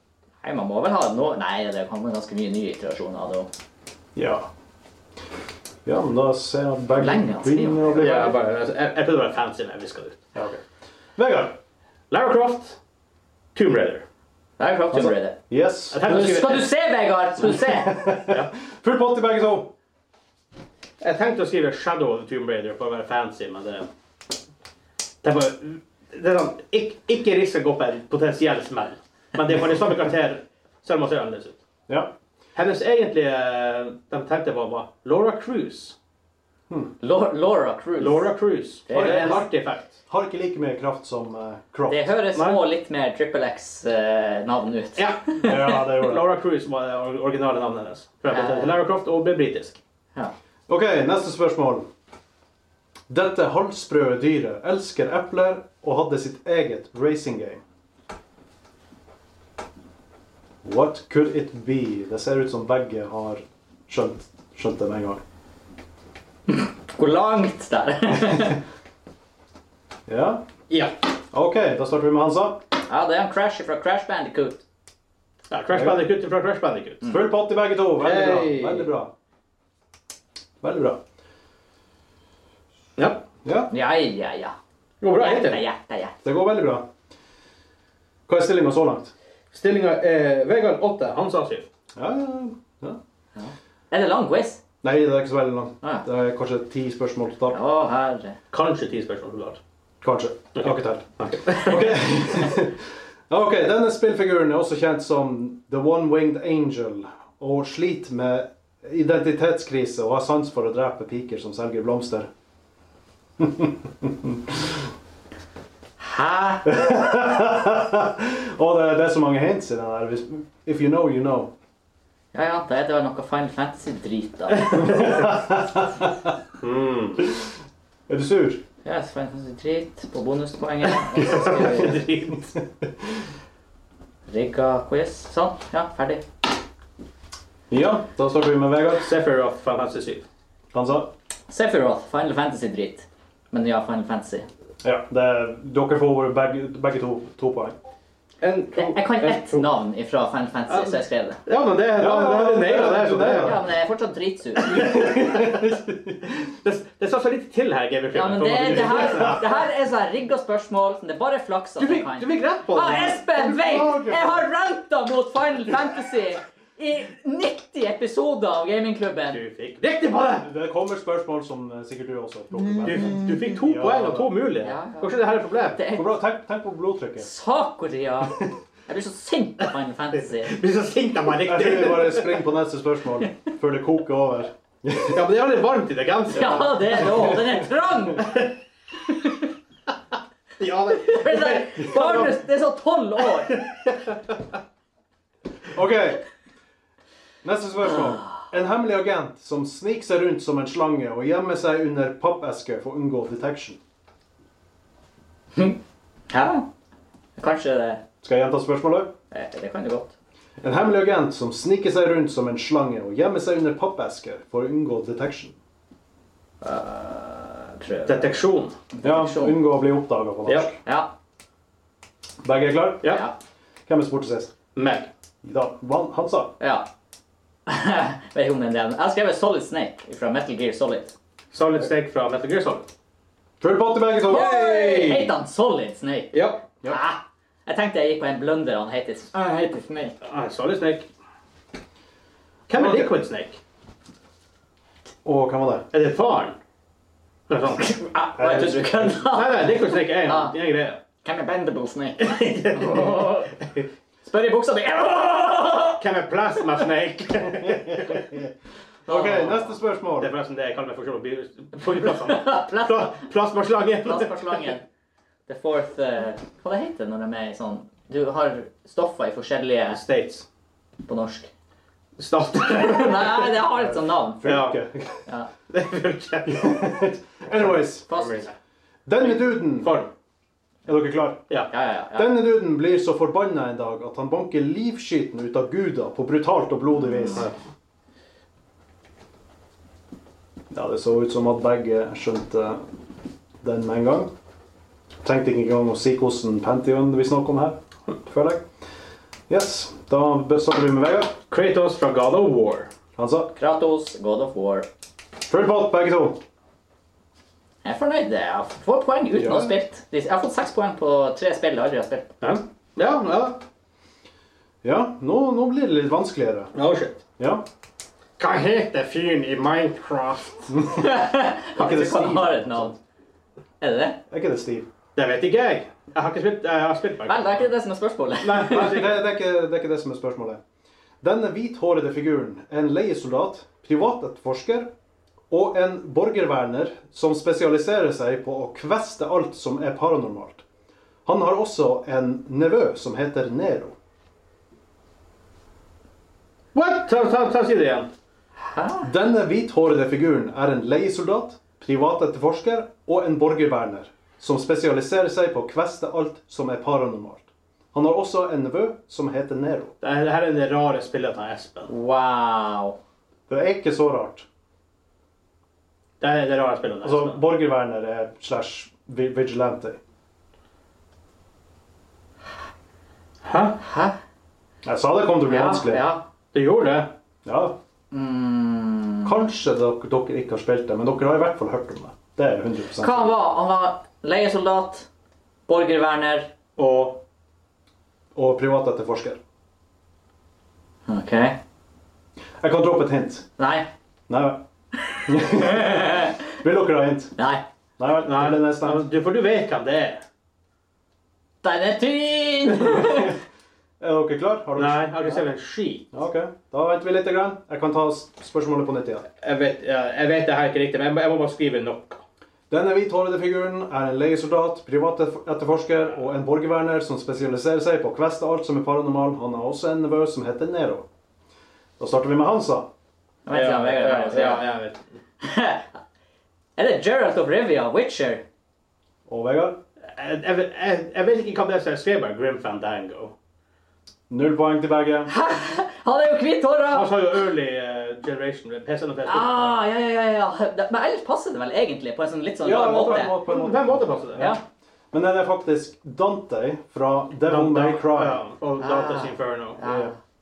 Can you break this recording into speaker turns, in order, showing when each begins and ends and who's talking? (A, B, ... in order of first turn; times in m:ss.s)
0:00.4-0:03.5 A
0:04.1-0:04.5 B
0:05.8-0:08.4 B
0:06.9-0:08.4 A
0:07.9-0:10.2 C
0:10.3-0:10.6 B
0:11.2-0:11.6 B
0:12.1-0:12.8 C
0:13.6-0:14.0 C
0:14.6-0:15.4 A
0:14.9-0:16.1 B
0:15.9-0:16.7 C
0:16.0-0:18.1 A
0:17.4-0:19.7 B
0:21.0-0:23.9 C
0:25.2-0:31.6 C
0:31.9-0:32.1 B
0:32.6-0:36.0 C
0:37.0-0:38.3 A
0:38.0-0:40.0 C
0:38.8-0:39.4 A
0:38.9-0:42.1 B
0:41.9-0:45.8 A
0:42.3-0:42.6 C
0:45.0-0:49.8 C
0:45.4-0:46.2 B
0:48.3-0:48.8 A
0:50.7-0:51.9 B
0:53.1-0:57.6 B
1:00.6-1:05.2 B
1:06.5-1:08.6 A
1:10.1-1:10.4 B
1:10.7-1:11.0 C
1:11.3-1:12.6 B
1:12.8-1:14.6 A
1:15.5-1:17.1 C
1:15.7-1:16.1 B
1:17.0-1:19.1 B
1:18.0-1:18.9 C
1:20.6-1:21.0 B
1:23.0-1:23.2 C
1:23.4-1:23.7 B
1:23.7-1:24.5 A
1:25.0-1:25.6 C
1:25.1-1:26.2 A
1:26.2-1:26.8 B
1:28.3-1:29.1 B
1:29.5-1:31.7 C
1:31.9-1:33.0 B
1:33.4-1:34.6 A
1:34.8-1:37.6 B
1:37.5-1:38.4 A
1:38.5-1:39.6 C
1:40.0-1:52.3 B
1:40.6-1:41.9 C
1:53.4-1:54.8 B
1:56.0-1:56.8 A
1:56.6-2:01.5 B
2:02.3-2:05.2 A
2:04.6-2:05.0 C
2:04.8-2:06.1 B
2:06.6-2:07.2 C
2:07.2-2:07.5 B
2:08.1-2:08.6 B
2:08.8-2:12.0 A
2:10.9-2:12.5 C
2:11.2-2:12.9 B
2:14.3-2:16.2 A
2:17.7-2:19.1 B
2:18.9-2:20.2 C
2:20.7-2:21.1 B
2:21.5-2:24.5 A
2:24.8-2:27.8 B
2:28.4-2:29.7 C
2:28.8-2:31.4 A
2:30.7-2:33.6 C
2:32.0-2:33.7 B
2:33.4-2:34.9 A
2:34.6-2:36.2 B
2:34.7-2:39.5 C
2:38.1-2:49.4 A
2:38.7-2:39.4 B
2:41.8-2:43.2 C
2:43.3-2:44.4 B
2:49.3-2:50.5 C
2:50.4-2:54.4 B
2:52.8-2:55.8 C
2:54.6-2:56.2 A
2:55.9-2:57.3 B
2:57.2-3:00.6 A
3:00.3-3:02.4 C
3:01.4-3:05.2 B
3:05.1-3:07.4 C
3:06.3-3:08.4 A
3:07.0-3:07.6 B
3:08.2-3:08.5 C
3:09.1-3:09.4 A
3:10.6-3:12.4 C
3:11.0-3:13.6 A
3:13.5-3:14.2 C
3:15.7-3:16.2 B
3:17.4-3:23.8 B
3:26.3-3:26.6 A
3:27.4-3:28.0 A
3:28.2-3:29.1 B
3:29.3-3:30.1 A
3:30.6-3:35.5 B
3:36.6-3:38.4 A
3:38.1-3:38.8 C
3:38.9-3:39.6 A
3:39.0-3:40.8 B
3:40.5-3:40.7 C
3:40.8-3:41.1 A
3:42.4-3:43.2 B
3:43.0-3:43.3 C
3:43.1-3:43.3 A
3:43.9-3:44.5 B
3:44.8-3:45.1 C
3:45.4-3:46.6 B
3:46.6-3:46.9 A
3:47.7-3:51.1 A
3:51.5-3:52.9 C
3:53.6-3:54.6 B
3:54.2-3:55.4 C
3:54.3-4:00.1 A
3:56.3-3:56.6 C
4:00.2-4:01.1 C
4:02.7-4:03.6 C
4:02.7-4:03.1 B
4:05.2-4:05.9 B
4:05.9-4:06.6 C
4:07.5-4:07.9 C
4:07.7-4:10.6 A
4:08.4-4:09.2 B
4:09.3-4:11.0 C
4:11.2-4:13.5 A
4:12.2-4:13.8 C
4:14.2-4:16.0 A
4:16.0-4:18.4 C
4:18.1-4:18.4 B
4:19.1-4:19.8 A
4:19.1-4:20.3 B
4:20.2-4:24.8 C
4:21.9-4:23.1 A
4:24.0-4:24.8 A
4:25.5-4:30.0 A
4:29.9-4:30.4 C
4:31.0-4:31.5 A
4:32.2-4:33.6 C
4:32.6-4:34.5 A
4:33.7-4:35.3 B
4:34.4-4:34.8 C
4:35.7-4:37.0 C
4:36.5-4:38.1 B
4:37.6-4:38.5 C
4:38.1-4:38.4 A
4:39.0-4:40.0 B
4:39.2-4:40.1 C
4:40.9-4:41.5 B
4:41.7-4:42.4 A
4:42.1-4:47.5 B
4:47.0-4:47.4 A
4:50.7-4:52.8 B
4:53.6-4:54.3 B
4:55.2-4:58.6 B
4:59.5-5:01.4 B
5:01.5-5:02.9 C
5:03.2-5:03.5 B
5:03.5-5:04.9 A
5:05.5-5:06.4 B
5:07.8-5:12.4 A
5:09.4-5:09.8 B
5:12.4-5:13.6 C
5:14.8-5:16.7 B
5:16.7-5:17.2 C
5:17.4-5:17.6 B
5:18.4-5:20.8 C
5:20.7-5:21.1 B
5:20.9-5:22.9 A
5:21.8-5:23.0 B
5:23.8-5:24.2 A
5:24.3-5:24.9 B
5:25.2-5:27.7 C
5:27.2-5:29.1 A
5:28.4-5:29.2 C
5:28.6-5:30.6 B
5:31.2-5:34.9 B
5:35.5-5:40.6 B
5:41.2-5:44.0 B
5:46.7-5:48.1 C
5:48.6-5:49.1 A
5:49.0-5:59.9 B
6:00.0-6:01.9 C
6:01.9-6:03.0 A
6:03.5-6:04.5 B
6:06.2-6:07.4 C
6:07.0-6:10.0 B
6:13.4-6:13.8 C
6:13.8-6:14.2 A
6:14.8-6:16.1 B
6:15.4-6:16.2 A
6:16.5-6:17.1 C
6:17.4-6:17.8 B
6:18.1-6:19.4 A
6:19.2-6:23.3 B
6:23.0-6:25.1 A
6:25.7-6:26.5 A
6:26.8-6:27.2 C
6:28.4-6:29.4 B
6:31.1-6:31.6 A
6:32.6-6:33.4 B
6:33.6-6:33.9 A
6:34.3-6:34.6 B
6:35.2-6:37.4 B
6:35.4-6:36.3 A
6:37.4-6:37.6 A
6:38.0-6:39.1 B
6:38.2-6:40.2 C
6:41.6-6:43.4 A
6:42.9-6:43.4 B
6:44.0-6:45.5 B
6:44.8-6:46.0 C
6:46.1-6:49.2 B
6:49.4-6:52.2 C
6:52.7-7:01.0 B
7:02.0-7:02.9 B
7:03.5-7:04.7 A
7:03.5-7:05.0 C
7:05.4-7:05.9 A
7:06.8-7:08.4 A
7:09.3-7:09.8 B
7:10.1-7:13.3 C
7:14.3-7:15.3 B
7:15.3-7:17.2 A
7:16.9-7:19.9 C
7:19.2-7:23.4 A
7:22.6-7:24.6 B
7:22.8-7:24.5 C
7:25.1-7:28.4 B
7:27.4-7:29.8 C
7:28.8-7:30.2 A
7:29.8-7:30.1 B